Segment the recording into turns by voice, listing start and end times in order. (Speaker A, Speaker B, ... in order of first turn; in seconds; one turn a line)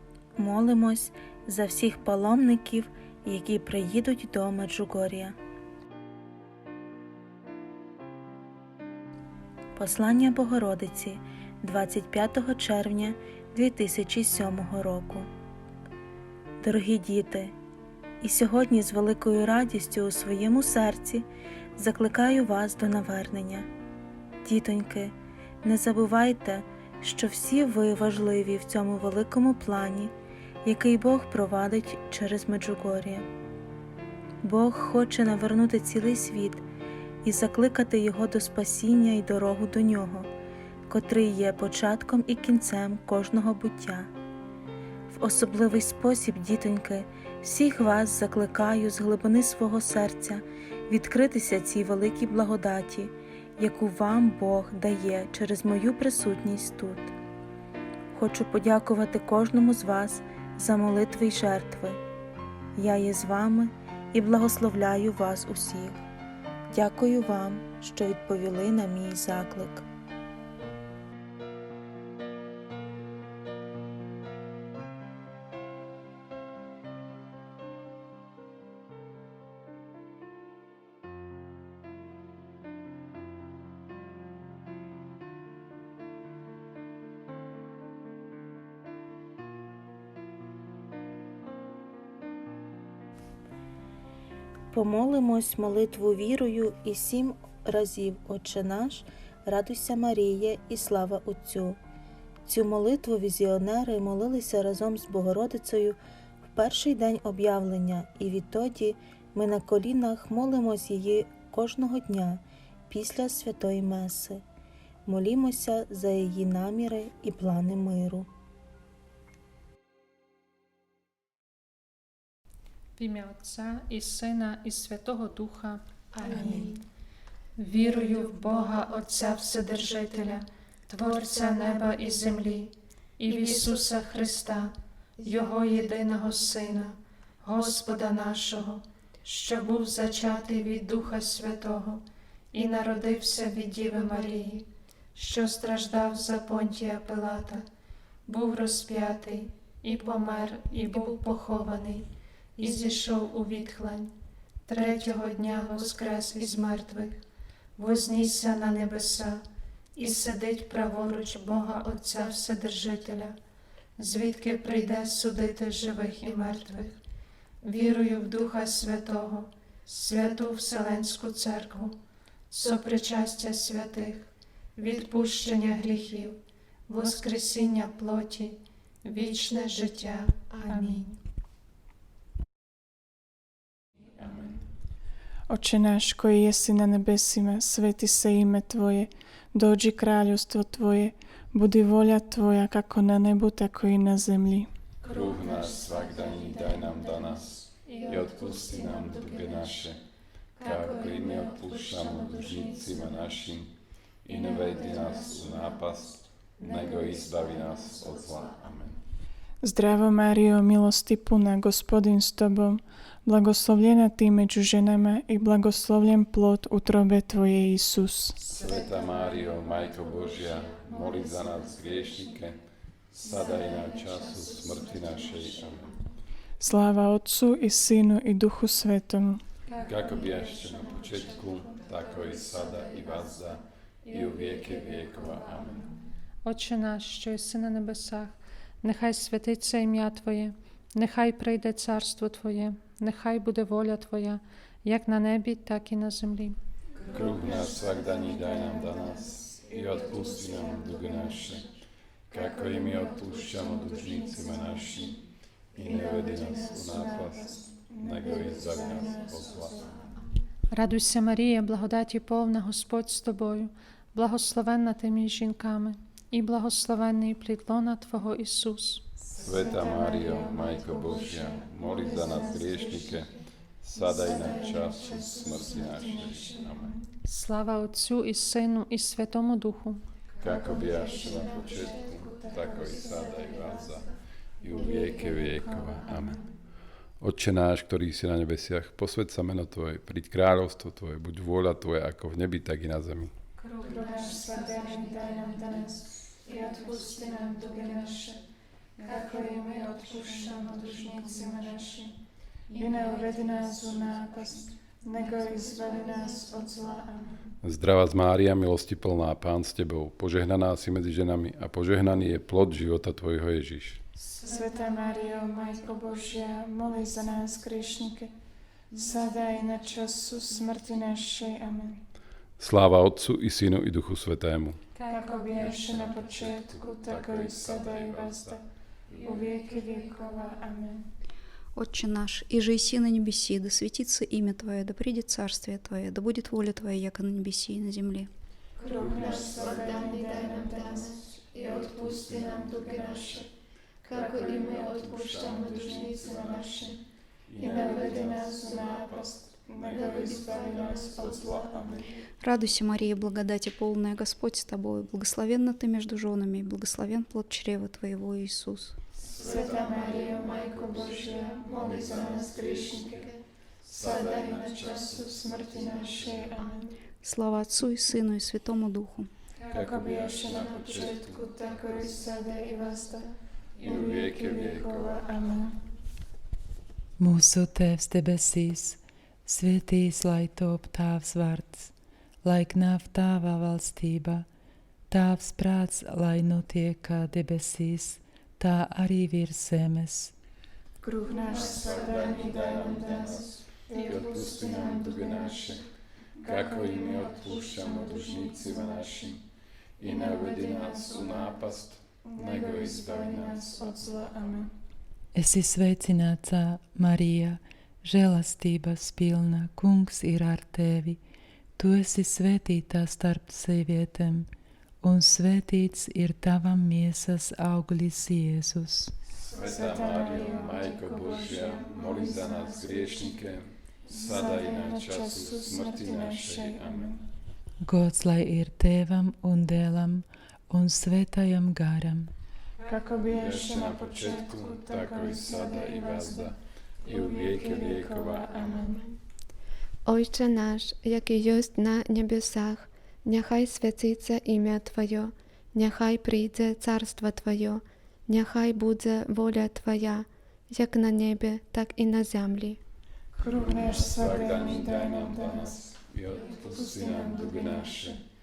Speaker A: 0.4-5.3
Speaker A: 9.8-15.3
Speaker A: 16.6-17.5
Speaker A: 18.2-23.7
Speaker A: 24.4-30.1
Speaker A: 30.6-33.3
Speaker A: 34.4-36.6
Speaker A: 37.2-40.3
Speaker A: 40.9-44.1
Speaker A: 45.1-57.1
Speaker A: 58.1-62.0
Speaker A: 62.8-66.1
Speaker A: 66.7-69.8
Speaker A: 94.7-101.8
Speaker A: 102.5-106.0
Speaker A: 106.5-114.4
Speaker A: 115.1-118.3
Speaker B: 123.0-126.7
Speaker B: 127.6-142.0
Speaker B: 142.5-147.6
Speaker B: 148.3-154.1
Speaker B: 154.7-157.2
Speaker B: 157.8-159.4
Speaker B: 159.9-163.3
Speaker B: 164.0-166.9
Speaker B: 167.6-171.9
Speaker B: 172.5-181.2
Speaker C: 180.7-181.0
Speaker C: 185.5-194.7
Speaker D: 195.0-200.0
Speaker B: 197.8-199.5
Speaker B: 200.6-203.3
Speaker D: 200.6-203.7
Speaker D: 204.2-209.0
Speaker B: 204.4-205.7
Speaker B: 206.6-207.8
Speaker C: 209.6-218.4
Speaker D: 218.4-222.6
Speaker D: 223.1-226.0
Speaker C: 226.6-229.4
Speaker B: 229.7-231.3
Speaker D: 229.8-235.9
Speaker B: 236.4-246.6
Speaker D: 247.1-251.7
Speaker C: 247.3-248.9
Speaker C: 249.6-251.3
Speaker D: 252.3-255.2
Speaker C: 252.3-255.0
Speaker D: 255.7-259.8
Speaker C: 255.8-260.1
Speaker B: 260.7-269.1
Speaker C: 269.3-273.3
Speaker D: 269.4-276.9
Speaker C: 273.9-277.0
Speaker B: 277.2-280.0
Speaker D: 280.4-284.1
Speaker C: 280.4-283.8
Speaker D: 284.6-286.4
Speaker B: 284.9-286.1
Speaker D: 287.2-293.3
Speaker B: 293.6-295.5
Speaker C: 293.8-298.4
Speaker C: 299.0-302.1
Speaker C: 302.7-307.5
Speaker D: 307.6-314.0
Speaker C: 314.4-318.3
Speaker B: 314.4-314.9
Speaker C: 318.9-322.0
Speaker D: 322.6-324.8
Speaker B: 324.9-325.8
Speaker C: 325.1-328.6
Speaker D: 325.5-328.6
Speaker C: 329.2-331.1
Speaker E: 331.7-338.3
Speaker C: 338.8-343.5
Speaker D: 338.9-340.2
Speaker F: 339.4-343.4
Speaker D: 341.6-343.4
Speaker C: 344.1-347.0
Speaker F: 344.1-346.9
Speaker D: 344.1-346.5
Speaker D: 347.5-352.1
Speaker C: 347.6-352.1
Speaker F: 350.6-350.9
Speaker E: 352.4-358.9
Speaker D: 359.1-363.2
Speaker C: 359.3-363.3
Speaker C: 363.8-367.0
Speaker D: 363.9-366.6
Speaker E: 367.2-369.3
Speaker C: 369.7-375.8
Speaker D: 369.7-371.6
Speaker D: 373.8-375.2
Speaker G: 377.2-381.9
Speaker G: 382.4-384.4
Speaker G: 385.1-390.3
Speaker C: 391.0-395.7
Speaker D: 391.3-395.9
Speaker C: 396.4-399.3
Speaker D: 396.4-399.4
Speaker D: 400.0-403.8
Speaker C: 400.0-401.7
Speaker C: 402.2-404.7
Speaker G: 405.3-411.2
Speaker G: 411.8-414.5
Speaker G: 415.0-419.1
Speaker D: 419.3-427.1
Speaker C: 419.4-423.4
Speaker C: 424.0-427.2
Speaker G: 427.8-432.3
Speaker C: 432.8-439.1
Speaker D: 433.2-438.8
Speaker F: 440.0-452.8
Speaker C: 453.3-458.2
Speaker D: 453.5-458.2